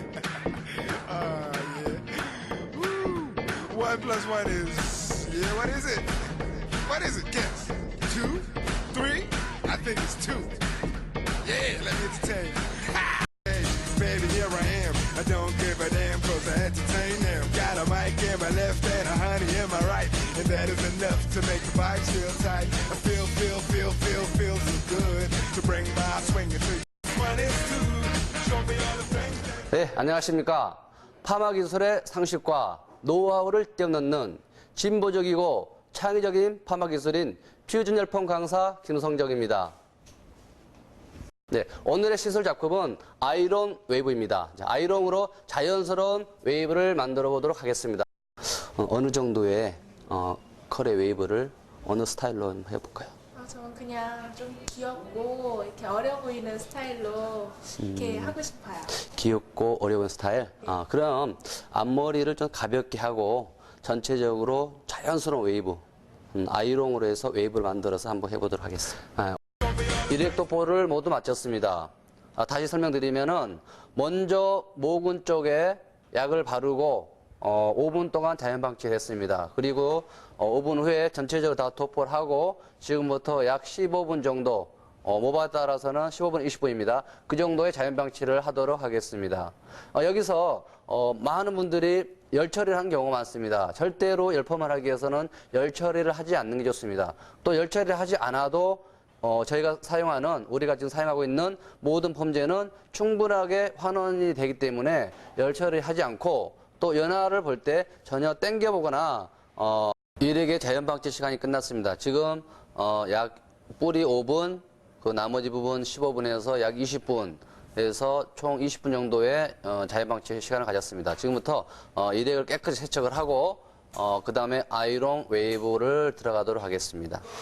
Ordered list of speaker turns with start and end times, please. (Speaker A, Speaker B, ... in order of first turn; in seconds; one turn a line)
Speaker A: 0.7-10.6
Speaker A: 11.4-29.5
Speaker B: 29.6-39.7
Speaker B: 41.5-53.1
Speaker C: 53.3-57.7
Speaker B: 57.7-69.4
Speaker C: 58.3-58.9
Speaker B: 69.9-127.2